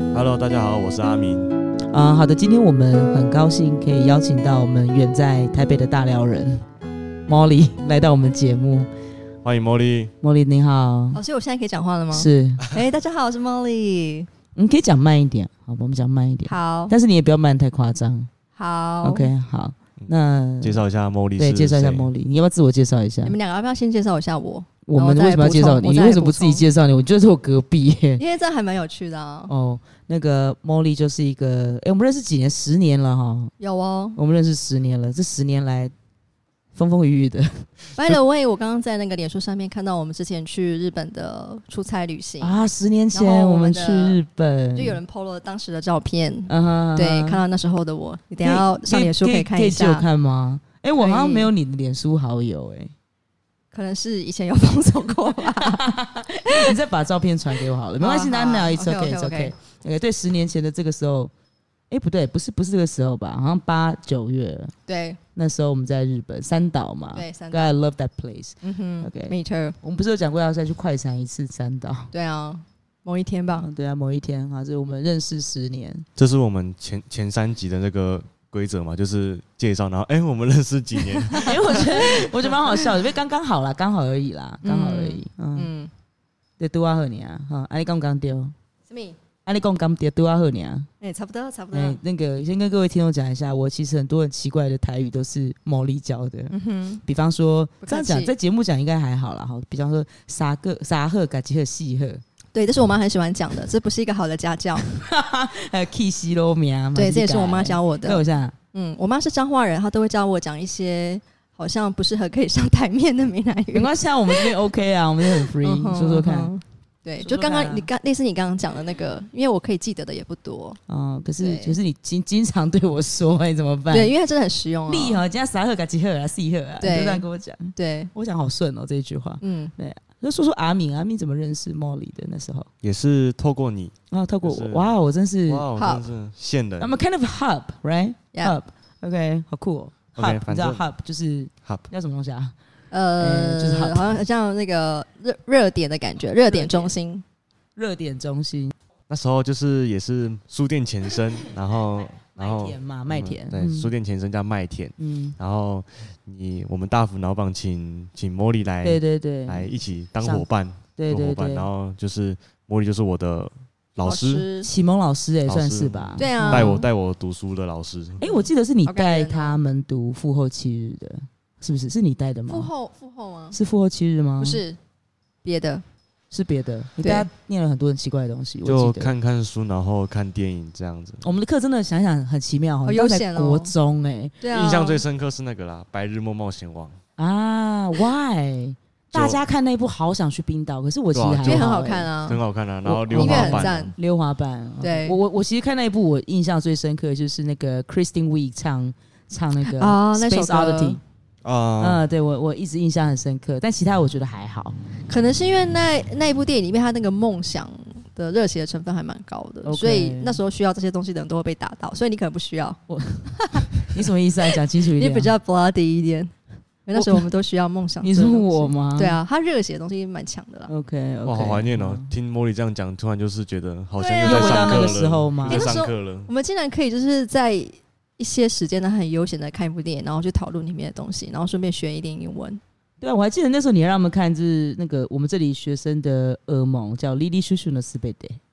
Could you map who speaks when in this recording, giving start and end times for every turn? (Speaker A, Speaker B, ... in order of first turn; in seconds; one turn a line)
Speaker A: 0.1-1.5
Speaker B: 1.9-6.6
Speaker B: 7.3-8.9
Speaker A: 9.4-10.1
Speaker B: 10.2-11.2
Speaker C: 11.1-14.3
Speaker B: 12.1-12.7
Speaker B: 14.5-18.3
Speaker C: 16.5-16.9
Speaker C: 18.6-19.3
Speaker B: 19.0-20.8
Speaker A: 20.0-22.1
Speaker B: 21.4-23.4
Speaker C: 23.2-26.6
Speaker B: 24.9-28.2
Speaker C: 28.2-29.5
Speaker B: 29.5-33.5
Speaker C: 33.6-34.2
Speaker B: 34.2-35.9
Speaker B: 36.8-38.2
Speaker C: 38.0-42.6
Speaker B: 42.4-45.0
Speaker C: 43.1-44.2
Speaker C: 44.7-50.1
Speaker B: 46.5-47.4
Speaker B: 48.4-52.9
Speaker C: 51.0-51.5
Speaker C: 53.7-56.8
Speaker B: 55.4-61.3
Speaker C: 58.0-59.5
Speaker B: 61.9-64.7
Speaker C: 64.9-65.2
Speaker B: 65.3-72.1
Speaker C: 67.1-67.8
Speaker C: 68.6-69.8
Speaker C: 72.1-73.7
Speaker B: 73.6-76.1
Speaker A: 76.2-82.3
Speaker C: 81.2-82.8
Speaker B: 81.4-85.7
Speaker C: 84.6-85.9
Speaker B: 86.6-88.5
Speaker C: 88.9-89.2
Speaker B: 89.5-90.9
Speaker C: 91.0-92.0
Speaker B: 91.7-102.2
Speaker C: 96.5-97.0
Speaker C: 97.8-98.3
Speaker C: 102.5-104.9
Speaker B: 104.8-108.5
Speaker C: 106.9-108.2
Speaker C: 108.7-114.6
Speaker B: 113.7-116.5
Speaker C: 115.3-120.8
Speaker B: 117.2-117.9
Speaker B: 120.9-124.1
Speaker C: 121.4-121.8
Speaker C: 123.9-125.2
Speaker B: 124.9-132.7
Speaker C: 126.8-128.1
Speaker C: 129.4-129.7
Speaker A: 132.8-134.9
Speaker B: 134.1-135.7
Speaker A: 135.5-136.9
Speaker C: 135.8-136.0
Speaker B: 136.8-142.6
Speaker A: 140.2-140.8
Speaker C: 142.9-147.2
Speaker B: 143.2-144.2
Speaker B: 146.5-146.9
Speaker B: 147.8-148.7
Speaker A: 149.1-164.5
Speaker B: 152.3-153.9
Speaker B: 155.0-155.4
Speaker B: 158.8-160.5
Speaker B: 161.0-161.7
Speaker C: 164.0-164.7
Speaker B: 164.6-166.8
Speaker A: 165.5-168.2
Speaker C: 166.2-166.9
Speaker B: 168.2-172.7
Speaker C: 168.3-169.6
Speaker C: 172.5-173.6
Speaker B: 173.5-174.6
Speaker C: 174.4-174.8
Speaker C: 175.4-175.8
Speaker B: 176.3-179.1
Speaker C: 177.0-177.3
Speaker A: 178.6-181.2
Speaker B: 181.2-184.4
Speaker C: 182.9-183.7
Speaker C: 184.4-185.0
Speaker A: 184.5-187.0
Speaker B: 187.2-192.1
Speaker A: 189.1-189.4
Speaker A: 191.1-191.7
Speaker C: 191.4-192.4
Speaker A: 192.3-193.9
Speaker B: 192.8-201.0
Speaker C: 193.1-193.9
Speaker C: 194.8-195.2
Speaker C: 199.6-201.0
Speaker A: 201.4-202.0
Speaker B: 201.8-204.8
Speaker C: 205.1-213.8
Speaker B: 209.7-210.4
Speaker B: 212.9-215.3
Speaker C: 214.7-216.3
Speaker C: 216.9-220.7
Speaker B: 216.9-217.3
Speaker B: 218.0-219.2
Speaker B: 220.7-222.1
Speaker A: 221.2-226.3
Speaker C: 224.0-232.6
Speaker B: 224.2-225.7
Speaker B: 233.0-238.4